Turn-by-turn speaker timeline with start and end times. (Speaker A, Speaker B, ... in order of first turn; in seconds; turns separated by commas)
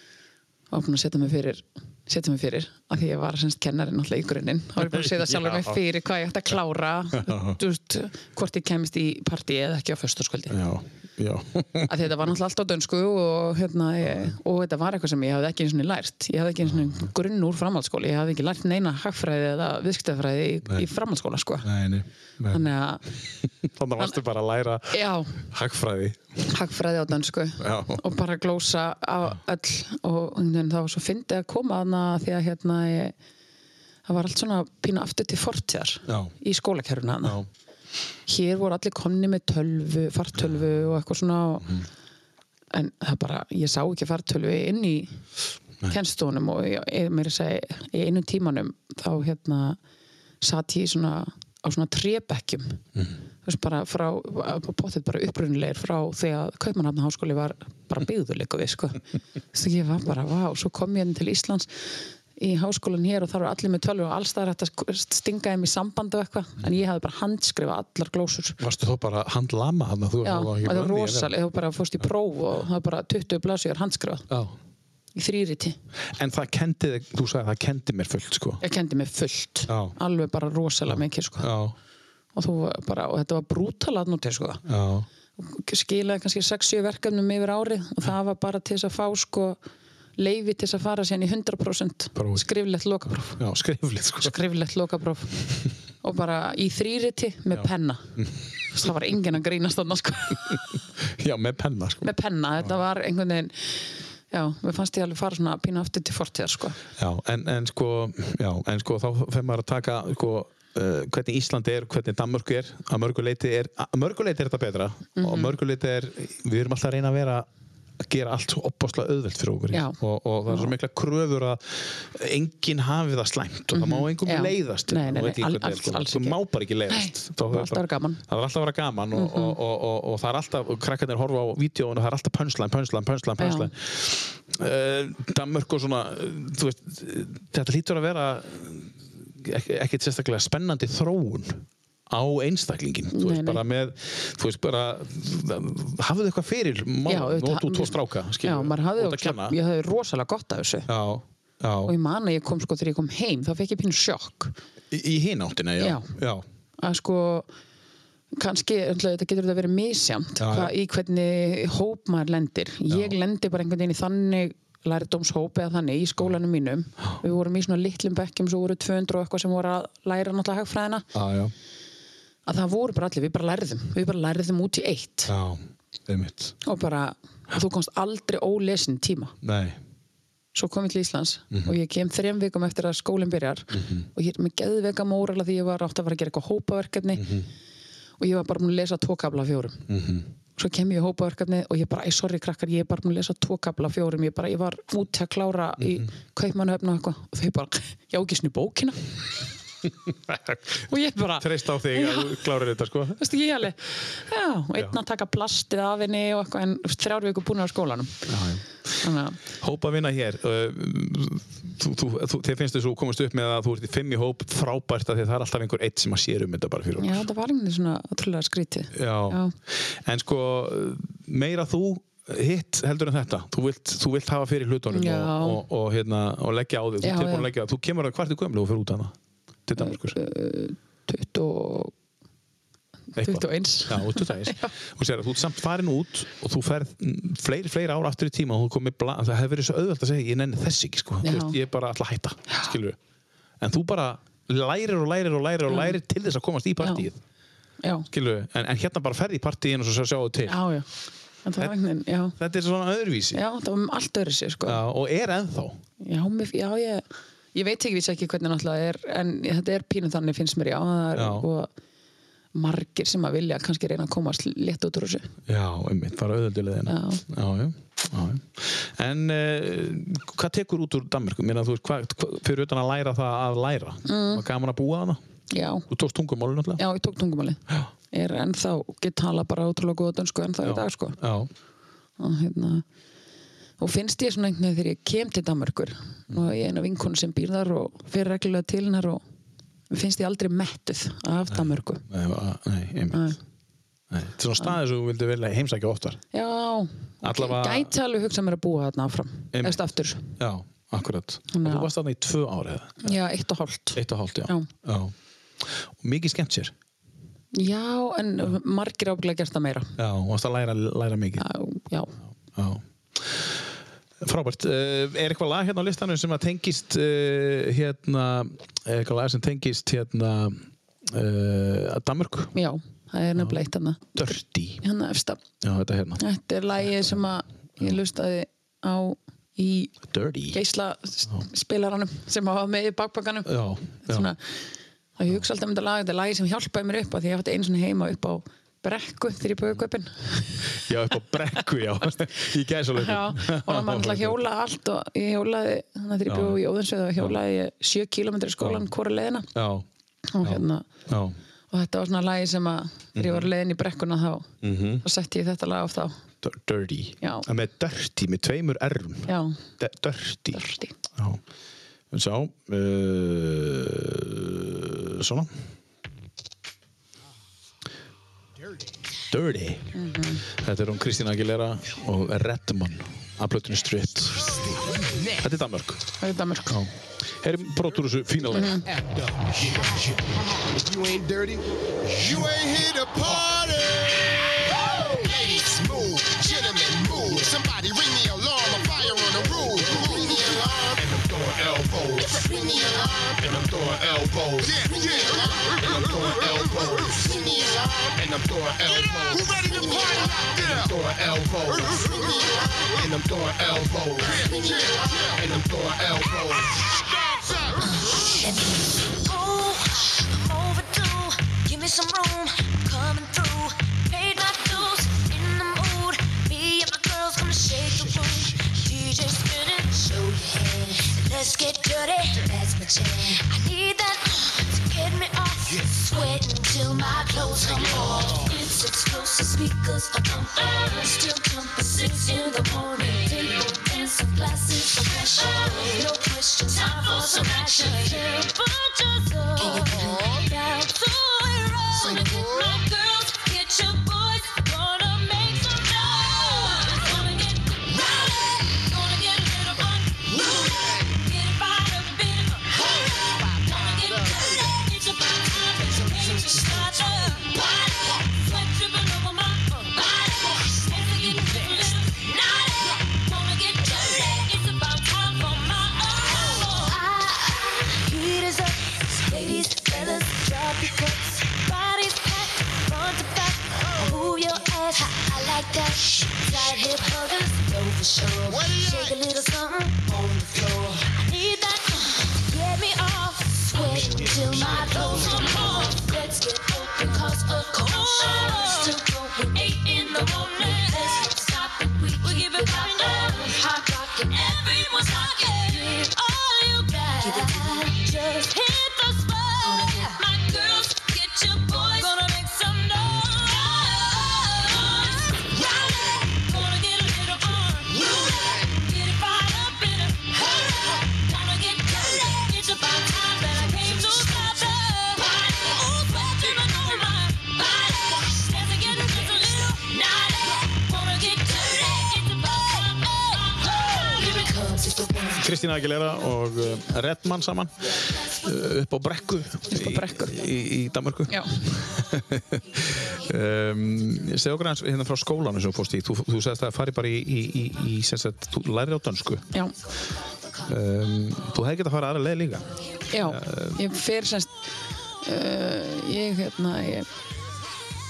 Speaker A: 0.7-10.6, Speaker B: 4.8-5.8, Speaker B: 7.1-7.6, Speaker B: 10.5-12.1, Speaker A: 11.9-21.7, Speaker B: 14.0-14.3, Speaker B: 16.6-17.0, Speaker B: 21.6-22.6, Speaker A: 22.5-23.1, Speaker B: 23.4-26.5, Speaker A: 24.9-25.4, Speaker A: 26.5-33.1, Speaker B: 27.6-28.0, Speaker A: 34.1-37.4, Speaker B: 36.1-36.3, Speaker A: 38.3-41.7, Speaker A: 42.7-45.2, Speaker A: 45.9-49.8, Speaker A: 50.4-52.8, Speaker A: 53.4-59.0, Speaker A: 59.5-61.7, Speaker A: 62.4-68.6, Speaker B: 68.6-71.3, Speaker A: 70.2-74.3, Speaker B: 74.3-74.5, Speaker A: 75.1-75.8, Speaker B: 76.1-78.6, Speaker A: 78.6-81.5, Speaker B: 79.7-79.9, Speaker B: 80.9-81.7, Speaker A: 82.3-84.6, Speaker B: 84.7-85.0, Speaker A: 85.4-89.6, Speaker A: 90.2-93.4, Speaker B: 92.1-92.4, Speaker B: 93.4-94.3, Speaker A: 94.2-95.4, Speaker A: 96.0-98.1, Speaker B: 97.5-98.4, Speaker A: 98.7-100.6, Speaker B: 100.5-102.7, Speaker A: 102.0-106.8, Speaker B: 107.0-117.5, Speaker A: 115.2-115.5, Speaker B: 118.0-149.6, Speaker A: 119.7-120.7, Speaker A: 123.7-128.2, Speaker A: 129.1-129.6, Speaker A: 133.4-133.7, Speaker A: 143.1-143.6, Speaker A: 147.1-150.9, Speaker B: 150.9-151.9, Speaker A: 151.8-154.5, Speaker B: 154.9-156.4, Speaker A: 155.8-156.1, Speaker A: 156.8-157.5, Speaker A: 158.3-171.1, Speaker B: 160.4-160.7, Speaker B: 162.9-163.1, Speaker B: 171.1-171.5, Speaker A: 172.4-175.3, Speaker B: 175.3-176.5, Speaker A: 176.6-179.3, Speaker B: 179.4-179.8, Speaker A: 180.5-187.3, Speaker B: 183.7-184.1, Speaker B: 187.2-187.5, Speaker A: 188.2-189.8, Speaker B: 189.9-190.3, Speaker A: 190.6-199.0, Speaker B: 195.8-196.1, Speaker B: 200.1-200.8, Speaker A: 200.9-202.4, Speaker B: 201.4-203.3, Speaker A: 203.2-208.3, Speaker B: 208.3-208.6, Speaker A: 209.0-209.4, Speaker B: 209.5-217.3, Speaker A: 217.0-219.5, Speaker B: 218.9-229.1, Speaker A: 224.9-225.6, Speaker A: 227.0-227.5, Speaker B: 229.7-230.2, Speaker A: 229.8-231.9, Speaker B: 233.2-243.0, Speaker A: 233.2-234.7, Speaker A: 241.2-241.6, Speaker B: 243.6-247.2, Speaker A: 245.7-245.9, Speaker B: 248.1-250.6, Speaker A: 250.5-250.9, Speaker A: 251.4-252.3, Speaker B: 252.4-253.4, Speaker A: 253.3-254.8, Speaker B: 254.6-255.8, Speaker A: 256.0-261.7, Speaker B: 261.1-261.4, Speaker A: 262.5-265.3, Speaker B: 265.5-275.2, Speaker A: 266.9-267.2, Speaker A: 274.1-274.4, Speaker A: 275.5-275.9, Speaker B: 275.9-276.8, Speaker A: 276.8-281.2, Speaker B: 280.6-281.5, Speaker A: 282.2-282.8, Speaker A: 283.8-289.2, Speaker A: 289.9-292.0, Speaker B: 291.5-293.4, Speaker A: 293.1-293.4, Speaker B: 294.1-296.2, Speaker A: 296.3-300.3, Speaker B: 297.2-297.9, Speaker B: 299.5-299.8, Speaker B: 300.4-303.2, Speaker A: 301.5-301.9, Speaker A: 303.0-304.7, Speaker B: 303.9-306.7, Speaker A: 307.5-309.9, Speaker B: 310.0-311.4, Speaker A: 311.4-312.1, Speaker B: 312.5-313.6, Speaker B: 314.2-322.5, Speaker A: 322.5-325.4, Speaker B: 324.1-324.8, Speaker B: 325.6-326.2, Speaker A: 326.2-329.9, Speaker B: 330.0-330.6, Speaker A: 330.5-334.5, Speaker B: 333.4-334.3, Speaker A: 335.2-340.7, Speaker B: 340.7-344.4, Speaker A: 342.9-349.5, Speaker B: 346.3-346.6, Speaker B: 349.5-349.9, Speaker A: 350.3-350.9, Speaker B: 350.4-351.4, Speaker A: 351.7-354.5, Speaker B: 353.1-353.5, Speaker B: 354.6-355.0, Speaker A: 355.0-356.1, Speaker B: 356.4-360.6, Speaker A: 357.2-357.4, Speaker A: 359.3-359.6, Speaker A: 360.5-360.9, Speaker B: 361.1-361.4, Speaker B: 362.1-365.5, Speaker B: 369.3-369.9, Speaker A: 369.9-370.4, Speaker B: 370.5-376.0, Speaker A: 376.2-376.8, Speaker B: 376.7-378.9, Speaker A: 378.5-378.9, Speaker C: 380.7-381.6, Speaker C: 382.2-384.4, Speaker C: 385.1-406.8, Speaker D: 392.4-393.1, Speaker D: 404.4-404.9, Speaker D: 406.8-407.3, Speaker D: 407.8-525.5, Speaker C: 478.6-478.9, Speaker B: 525.4-539.5, Speaker A: 529.7-530.4, Speaker B: 540.6-543.8, Speaker A: 543.1-544.5, Speaker A: 545.2-547.1